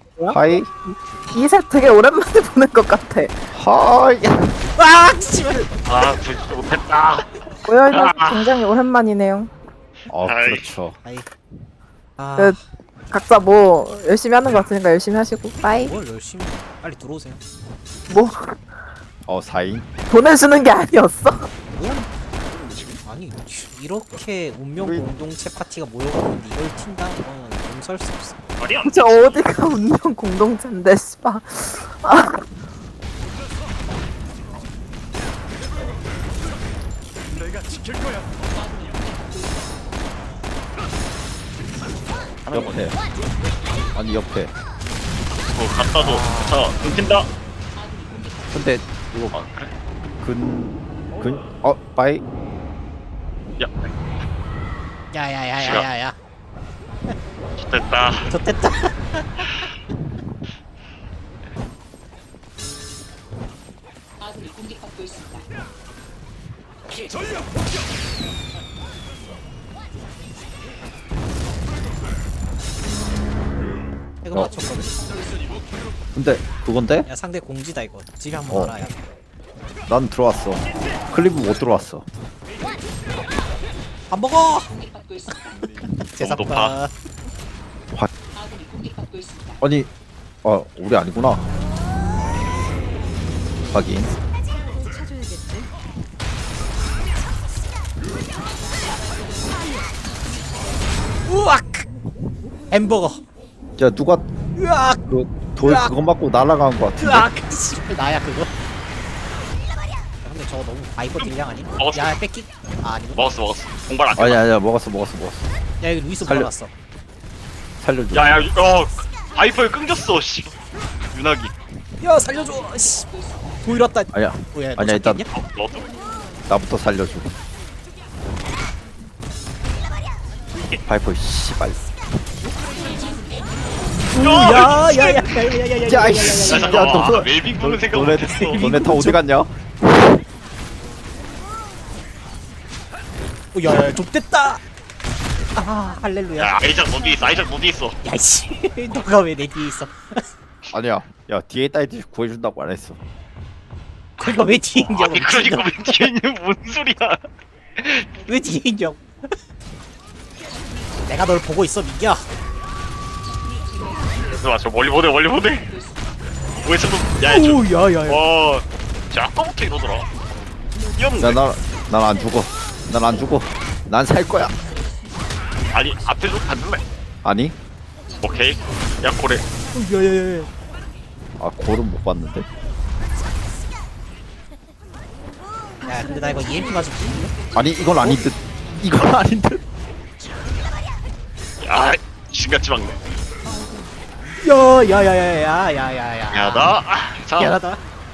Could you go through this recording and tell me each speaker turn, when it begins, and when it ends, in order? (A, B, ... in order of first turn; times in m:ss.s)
0:00.2-0:00.7 A
0:00.3-0:00.7 B
0:01.3-0:03.3 A
0:03.5-0:04.4 B
0:04.8-0:05.6 C
0:05.8-0:08.6 D
0:07.6-0:09.5 A
0:10.1-0:11.0 B
0:10.2-0:10.7 D
0:11.0-0:11.3 C
0:12.2-0:12.6 C
0:13.1-0:15.9 A
0:15.6-0:17.4 C
0:18.1-0:18.6 A
0:19.3-0:19.9 B
0:20.1-0:21.5 A
0:21.7-0:22.1 C
0:22.5-0:23.0 D
0:23.0-0:28.4 C
0:24.8-0:25.1 B
0:28.6-0:29.3 D
0:28.8-0:32.4 A
0:42.4-0:42.9 D
0:42.5-0:43.0 B
0:43.9-0:44.5 B
0:45.3-0:47.3 D
0:46.0-0:46.7 C
0:48.5-0:49.4 B
0:49.3-0:49.7 D
0:50.2-0:52.2 B
0:53.6-0:53.9 D
0:55.1-0:56.1 C
0:55.6-0:55.9 D
0:57.6-0:58.3 D
0:58.3-0:59.5 C
1:14.2-1:15.0 C
1:16.1-1:17.1 B
1:17.0-1:19.0 C
1:18.5-1:18.8 B
1:19.9-1:22.0 B
1:24.1-1:24.8 C
1:26.0-1:26.9 C
1:26.2-1:26.8 D
1:29.6-1:29.9 B
1:30.4-1:31.4 B
1:33.7-1:34.1 B
1:41.2-1:41.8 C
1:42.7-1:43.2 C
1:43.8-1:44.2 B
1:44.6-1:45.0 C
1:45.1-1:47.3 B
1:45.6-1:45.9 C
1:47.0-1:48.5 C
1:50.2-1:53.3 C
1:51.2-1:52.2 D
1:53.1-1:54.4 D
1:54.1-1:55.5 B
1:55.8-1:56.7 C
1:56.2-1:56.5 B
1:57.8-1:58.5 B
1:58.1-2:00.6 D
2:01.1-2:01.5 D
2:02.0-2:03.1 C
2:03.6-2:05.3 C
2:04.1-2:05.2 B
2:05.3-2:05.9 D
2:06.5-2:07.3 B
2:10.8-2:11.9 B
2:14.1-2:16.9 C
2:14.2-2:15.3 D
2:15.8-2:19.6 B
2:16.3-2:18.7 D
2:18.4-2:19.2 C
2:23.5-2:24.6 C
2:25.5-2:26.5 C
2:26.4-2:28.0 D
2:28.0-2:30.2 C
2:30.7-2:33.0 B
2:34.2-2:36.1 C
2:34.2-2:37.2 D
2:37.8-2:38.1 D
2:38.3-2:39.3 C
2:41.0-2:42.2 C
2:44.2-2:45.7 D
2:46.6-2:50.1 D
2:47.2-2:48.2 C
2:50.9-2:51.4 D
2:51.2-2:54.5 B
2:55.7-2:56.8 D
2:57.2-2:57.5 B
2:58.1-2:59.4 D
2:59.7-3:00.5 C
3:01.4-3:02.4 B
3:05.8-3:07.3 C
3:07.5-3:09.6 B
3:11.6-3:13.0 D
3:14.4-3:16.7 C
3:16.3-3:17.6 D
3:17.4-3:17.8 C